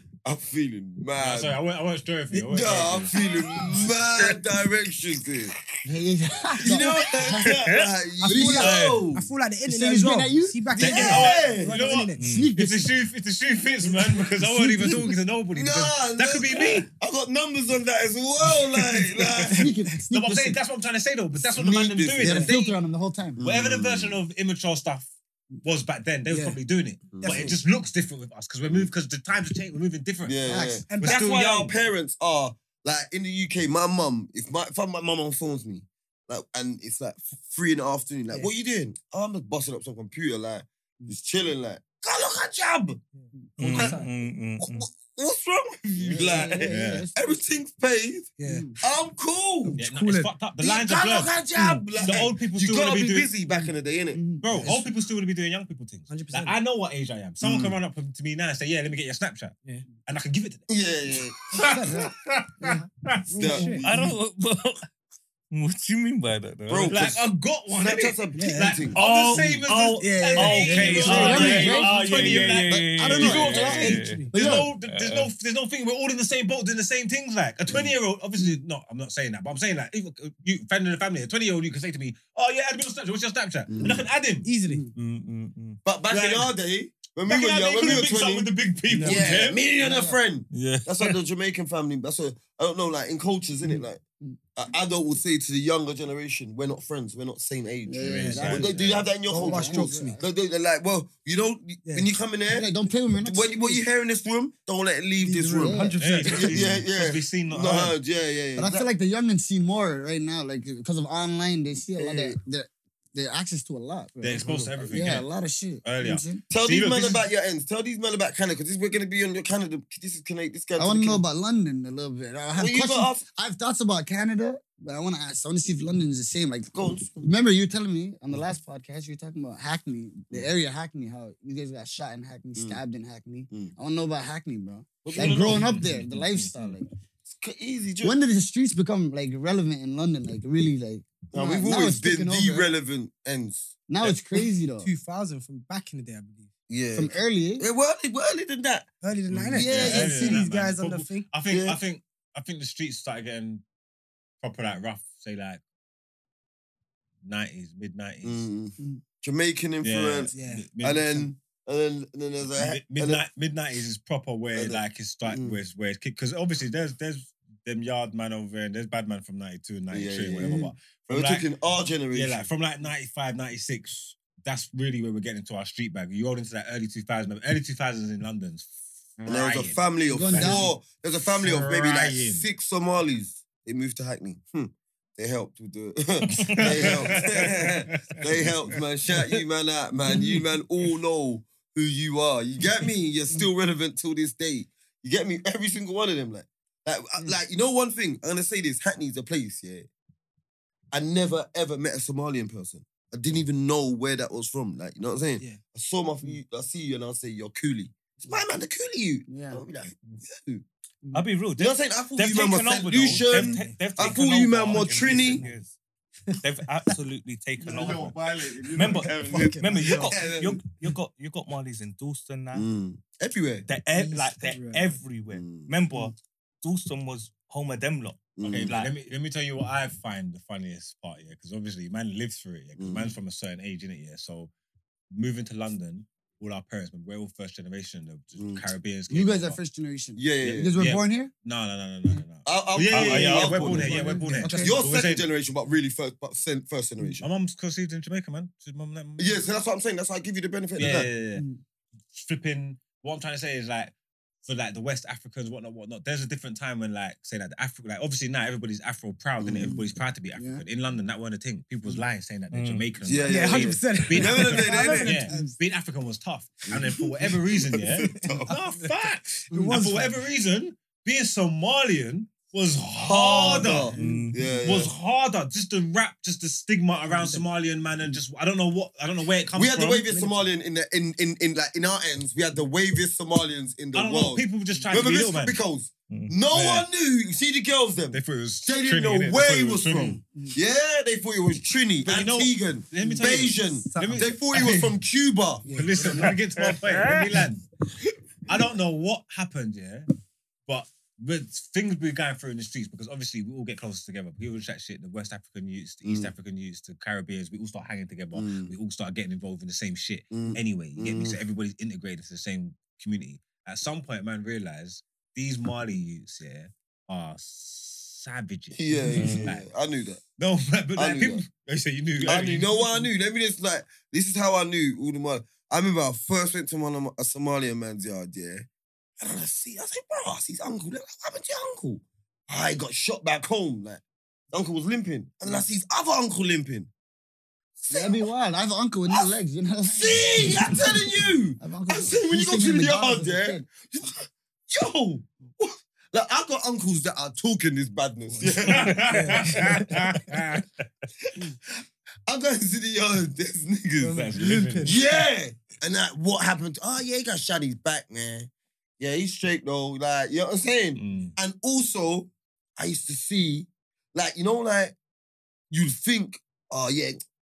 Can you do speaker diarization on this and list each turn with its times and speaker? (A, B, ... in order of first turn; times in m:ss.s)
0:00.2-0:01.6 A
0:01.2-0:03.1 B
0:02.3-0:05.6 A
0:05.8-0:07.6 C
0:06.6-0:09.3 A
0:07.3-0:07.9 D
0:08.2-0:08.8 C
0:08.3-0:12.4 E
0:08.5-0:09.0 D
0:09.6-0:11.2 C
0:10.7-0:11.8 A
0:10.8-0:16.9 B
0:12.2-0:12.5 D
0:12.2-0:12.9 C
0:14.4-0:15.0 E
0:15.5-0:19.7 A
0:19.4-0:22.8 B
0:19.5-0:20.6 C
0:21.4-0:22.5 A
0:22.2-0:23.4 C
0:23.4-0:24.2 A
0:23.4-0:25.1 B
0:25.6-0:31.8 B
0:26.3-0:26.6 E
0:27.1-0:27.6 A
0:30.2-0:43.0 A
0:30.5-0:30.8 C
0:30.9-0:31.2 E
0:43.2-0:44.1 E
0:43.6-0:44.9 D
0:43.6-0:44.0 A
0:44.6-0:49.8 A
0:46.0-0:47.4 C
0:46.7-0:47.1 B
0:48.4-0:48.8 E
0:48.4-0:48.8 C
0:49.6-0:50.3 E
0:49.8-0:51.4 B
0:50.6-0:54.2 A
0:51.5-0:52.3 E
0:52.0-0:53.3 B
0:54.2-0:54.4 C
0:54.2-0:54.9 E
0:54.4-1:00.7 B
0:56.1-0:56.6 E
0:57.4-0:57.8 A
0:59.6-0:59.9 E
1:00.7-1:01.9 A
1:01.6-1:02.0 E
1:01.6-1:03.7 B
1:01.8-1:02.1 C
1:03.3-1:04.0 E
1:03.4-1:04.1 A
1:03.8-1:04.8 D
1:05.5-1:07.2 D
1:06.7-1:09.0 A
1:06.9-1:24.5 B
1:08.3-1:14.6 E
1:08.9-1:15.3 D
1:11.1-1:11.9 C
1:13.0-1:14.7 C
1:23.7-1:24.0 A
1:24.4-1:24.9 E
1:24.9-1:25.8 D
1:25.8-1:28.5 A
1:26.1-1:26.5 B
1:27.3-1:29.6 B
1:28.9-1:29.2 E
1:29.0-1:34.0 A
1:29.8-1:30.2 C
1:30.5-1:31.1 D
1:33.6-1:34.4 C
1:34.5-1:42.7 A
1:37.9-1:40.2 C
1:38.0-1:39.1 B
1:38.3-1:38.5 E
1:39.3-1:40.2 E
1:42.5-1:43.8 C
1:43.2-1:48.9 A
1:45.2-1:46.7 E
1:45.6-1:46.0 C
1:46.0-1:48.0 B
1:48.6-1:56.4 C
1:52.0-1:52.4 A
1:54.2-1:55.3 B
1:54.4-1:54.9 A
1:55.8-1:57.2 B
1:56.5-2:01.2 A
2:00.8-2:16.9 C
2:02.6-2:03.2 A
2:06.7-2:07.3 A
2:15.0-2:15.8 A
2:15.1-2:16.8 B
2:17.3-2:18.2 A
2:18.0-2:22.7 C
2:21.3-2:23.8 A
2:23.9-2:24.9 C
2:24.8-2:26.5 E
2:26.7-2:28.9 A
2:26.9-2:27.7 C
2:29.0-2:31.3 E
2:29.3-2:33.6 B
2:29.5-2:30.4 A
2:31.5-2:31.8 A
2:34.4-2:35.6 B
2:37.2-2:38.4 B
2:38.2-2:43.2 A
2:39.8-2:41.3 B
2:40.3-2:40.7 E
2:42.6-2:51.4 B
2:44.5-2:45.6 A
2:49.9-2:52.5 A
2:52.1-3:00.7 B
2:59.2-3:19.9 A
3:00.1-3:00.7 C
3:01.3-3:02.4 B
3:06.3-3:07.0 D
3:06.4-3:08.5 B
3:20.9-3:30.6 A
3:29.3-3:29.6 C
3:31.1-3:35.8 D
3:31.6-3:35.4 A
3:33.2-3:33.8 E
3:34.7-3:35.5 E
3:36.3-3:37.0 E
3:36.4-3:42.7 D
3:37.6-3:40.6 A
3:39.2-3:40.2 E
3:42.5-3:43.7 A
3:43.7-3:48.9 D
3:43.9-3:45.0 E
3:45.3-3:45.7 A
3:48.4-3:48.8 A
3:48.4-3:54.5 B
3:52.8-3:53.1 A
3:55.1-3:59.6 B
3:58.4-3:58.7 A
3:59.1-4:01.3 C
4:00.2-4:00.7 A
4:00.7-4:05.2 B
4:02.4-4:07.3 A
4:02.9-4:04.0 D
4:03.6-4:04.8 E
4:04.4-4:04.7 C
4:07.2-4:09.4 B
4:09.2-4:11.1 A
4:10.8-4:11.4 B
4:12.1-4:13.9 B
4:14.4-4:34.0 B
4:19.4-4:19.8 A
4:20.4-4:20.6 C
4:22.5-4:22.9 D
4:23.0-4:25.2 A
4:23.2-4:25.6 E
4:26.7-4:28.5 A
4:28.2-4:28.5 E
4:29.5-4:30.2 E
4:33.0-4:34.9 A
4:33.9-4:34.4 E
4:34.0-4:34.4 D
4:34.6-4:40.3 B
4:37.1-4:37.4 E
4:39.5-4:56.3 A
4:43.9-4:45.6 B
4:46.1-4:46.4 D
4:46.5-4:46.8 B
4:48.1-4:50.2 B
4:52.0-4:54.9 B
4:53.0-4:54.4 E
4:55.7-4:56.4 E
4:55.7-4:57.6 B
4:56.6-4:57.4 D
4:58.5-5:00.1 B
5:00.7-5:19.7 B
5:06.0-5:06.3 A
5:08.3-5:08.7 A
5:10.3-5:11.4 A
5:18.7-5:20.2 A
5:19.1-5:19.5 D
5:20.4-5:23.0 B
5:21.0-5:21.4 A
5:22.2-5:28.7 A
5:29.2-5:36.9 A
5:37.8-5:38.3 A
5:37.9-5:41.0 C
5:39.9-5:49.5 A
5:41.6-5:43.6 C
5:48.3-5:50.0 E
5:48.5-5:50.6 B
5:52.3-5:54.2 A
5:54.0-5:55.2 E
5:54.0-5:55.0 B
5:54.8-6:04.9 A
6:01.0-6:01.3 B
6:05.7-6:07.2 A